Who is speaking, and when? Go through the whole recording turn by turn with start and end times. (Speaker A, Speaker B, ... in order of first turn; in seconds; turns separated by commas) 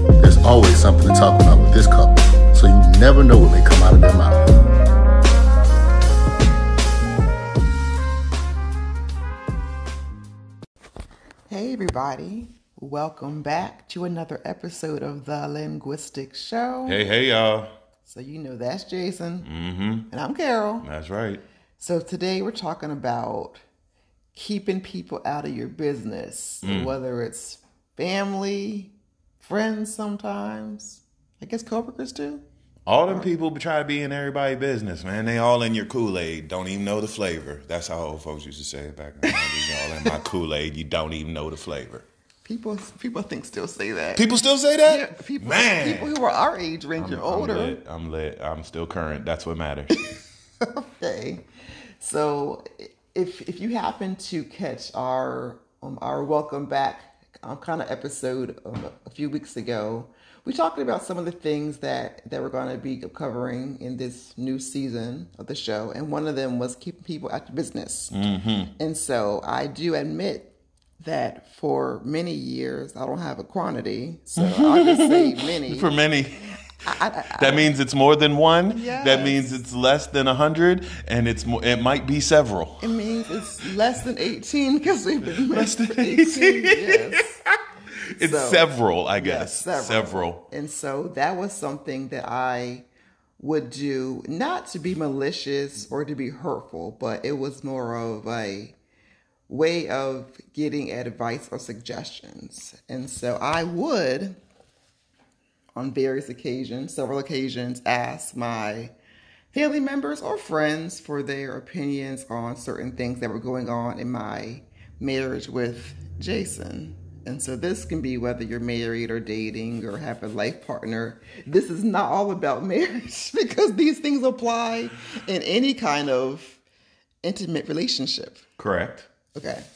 Speaker A: 0.2-4.5, Speaker B: 11.5-17.0, Speaker C: 16.9-17.7, Speaker B: 18.0-19.5, Speaker C: 19.4-20.1, Speaker B: 20.1-20.9, Speaker C: 20.8-21.4, Speaker B: 21.8-23.6, Speaker B: 24.3-32.4, Speaker C: 26.6-26.9, Speaker C: 32.9-42.0, Speaker B: 42.4-44.3, Speaker C: 44.1-46.1, Speaker B: 44.8-47.8, Speaker C: 47.0-50.0, Speaker B: 50.6-51.4, Speaker B: 52.0-68.2, Speaker C: 68.1-68.7, Speaker B: 68.8-75.9, Speaker C: 74.4-76.4, Speaker B: 76.8-77.7, Speaker C: 77.3-82.9, Speaker B: 78.7-79.6, Speaker B: 82.8-87.4, Speaker C: 85.2-87.5, Speaker C: 88.1-90.4, Speaker B: 88.2-92.8, Speaker B: 93.4-98.7, Speaker B: 99.5-104.4, Speaker B: 105.8-108.9, Speaker B: 109.5-126.6, Speaker B: 127.2-128.4, Speaker C: 128.6-129.1, Speaker B: 129.3-129.6